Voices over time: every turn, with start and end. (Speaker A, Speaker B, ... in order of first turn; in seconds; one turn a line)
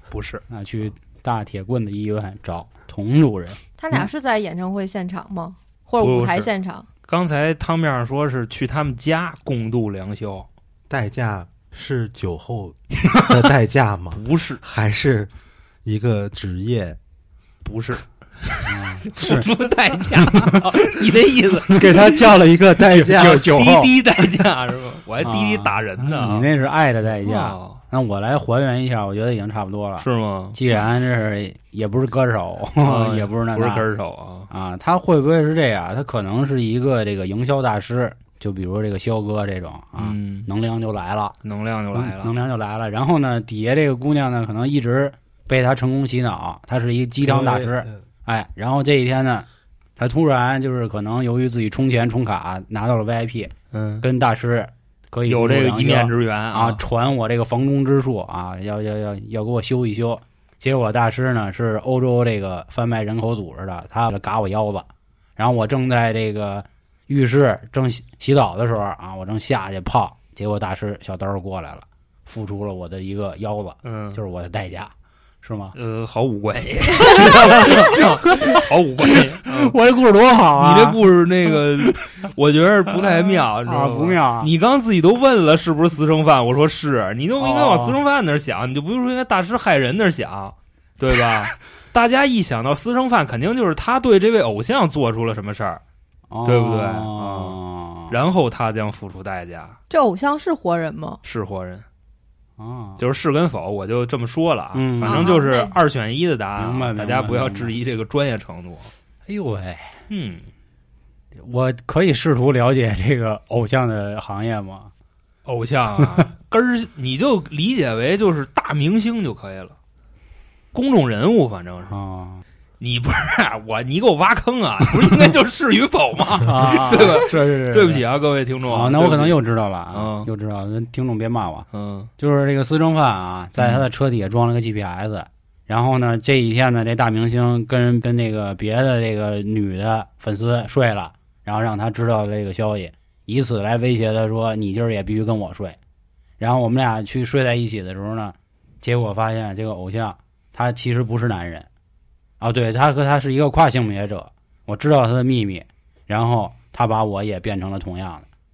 Speaker A: 0.1-0.4
Speaker B: 0.5-4.1
Speaker C: 3.8-6.8
Speaker A: 6.0-6.5
Speaker A: 7.0-10.5
Speaker D: 10.9-15.3
Speaker A: 14.1-14.6
Speaker D: 15.8-17.0
Speaker A: 17.6-22.1
Speaker B: 18.6-19.5
Speaker B: 20.1-20.7
Speaker B: 21.7-22.0
Speaker D: 21.7-23.5
Speaker B: 22.8-24.3
Speaker A: 23.2-26.5
Speaker B: 25.2-33.9
Speaker A: 27.2-27.8
Speaker A: 30.0-30.6
Speaker A: 32.8-34.5
Speaker B: 34.5-41.3
Speaker A: 40.0-40.5
Speaker A: 41.4-42.3
Speaker B: 41.9-49.5
Speaker D: 47.2-48.0
Speaker B: 50.0-75.8
Speaker A: 53.7-54.0
Speaker A: 55.3-56.8
Speaker A: 73.8-74.2
Speaker A: 75.7-79.8
Speaker B: 77.0-78.6
Speaker B: 79.4-81.0
Speaker A: 80.5-95.8
Speaker B: 83.0-84.5
Speaker B: 87.4-88.0
Speaker B: 96.3-98.2
Speaker A: 96.4-97.6
Speaker A: 98.1-99.8
Speaker C: 99.9-101.2
Speaker A: 101.2-101.8
Speaker B: 102.6-103.0
Speaker A: 103.0-108.9
Speaker B: 104.7-105.4
Speaker C: 105.0-105.7
Speaker B: 106.6-107.7
Speaker B: 109.2-110.0
Speaker A: 110.1-110.5
Speaker B: 111.3-114.9
Speaker A: 115.4-119.7
Speaker B: 116.0-116.3
Speaker A: 120.7-122.0
Speaker B: 121.9-122.4
Speaker A: 122.8-129.4
Speaker B: 126.4-128.0
Speaker B: 128.7-131.7
Speaker A: 129.9-130.3
Speaker A: 131.7-132.1
Speaker B: 132.2-145.8
Speaker A: 133.6-133.8
Speaker B: 146.4-151.7
Speaker B: 152.4-158.2